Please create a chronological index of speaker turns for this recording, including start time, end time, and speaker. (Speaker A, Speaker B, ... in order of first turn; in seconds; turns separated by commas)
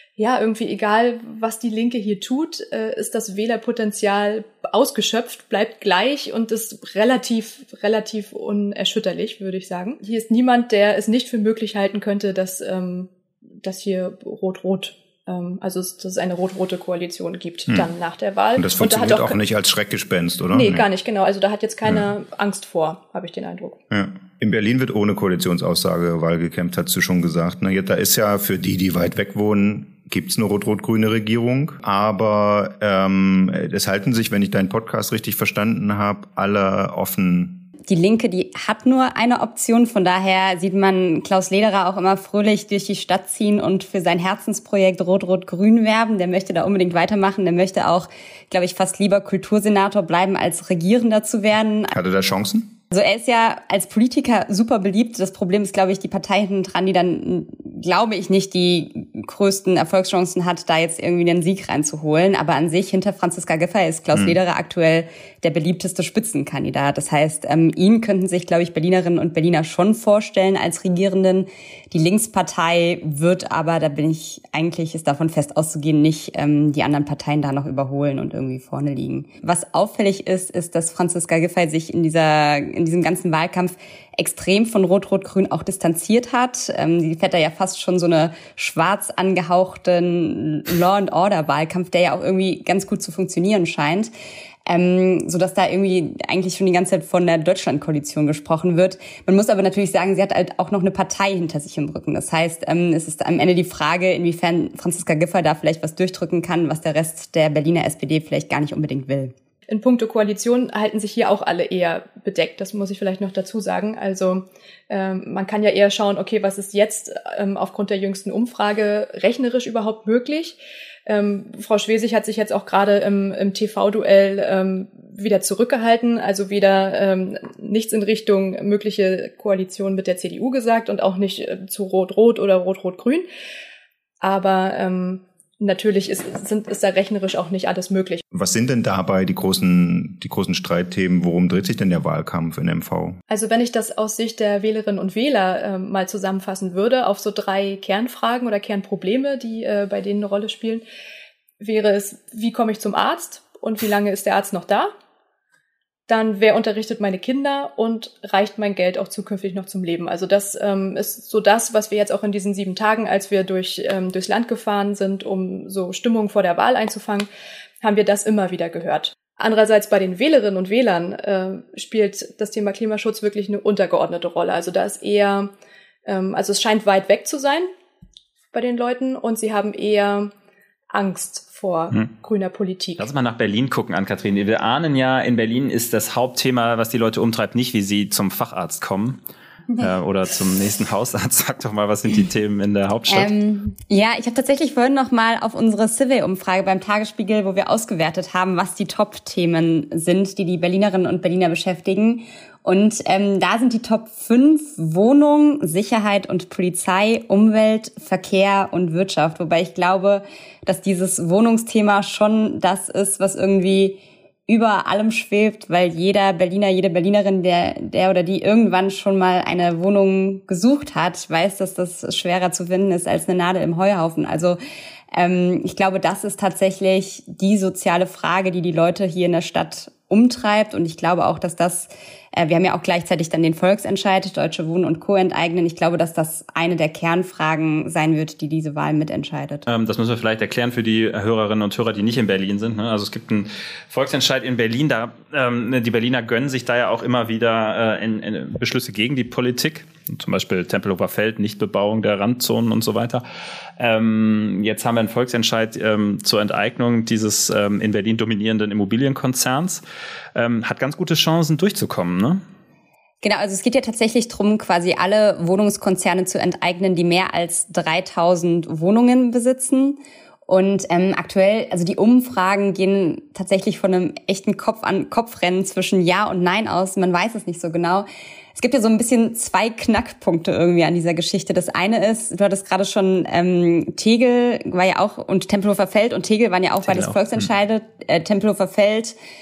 Speaker A: 0.2-13.1, Speaker A: 13.6-19.4, Speaker B: 18.6-20.9, Speaker A: 20.5-23.8, Speaker B: 23.9-37.7, Speaker C: 37.9-51.9, Speaker B: 51.9-52.7, Speaker C: 52.9-94.1, Speaker B: 64.1-64.4, Speaker C: 94.7-109.3, Speaker A: 109.7-133.2, Speaker A: 134.2-138.2, Speaker B: 138.3-143.2, Speaker A: 143.3-150.8, Speaker A: 151.6-154.9, Speaker A: 156.1-167.3, Speaker A: 167.8-175.5, Speaker A: 176.1-177.7, Speaker A: 178.5-180.3, Speaker A: 180.9-183.1, Speaker D: 183.0-189.2, Speaker D: 189.8-193.3, Speaker C: 193.1-224.6, Speaker C: 225.1-239.6, Speaker D: 239.7-253.2, Speaker D: 253.8-259.8, Speaker D: 260.3-262.4, Speaker C: 263.2-289.1, Speaker D: 286.9-287.2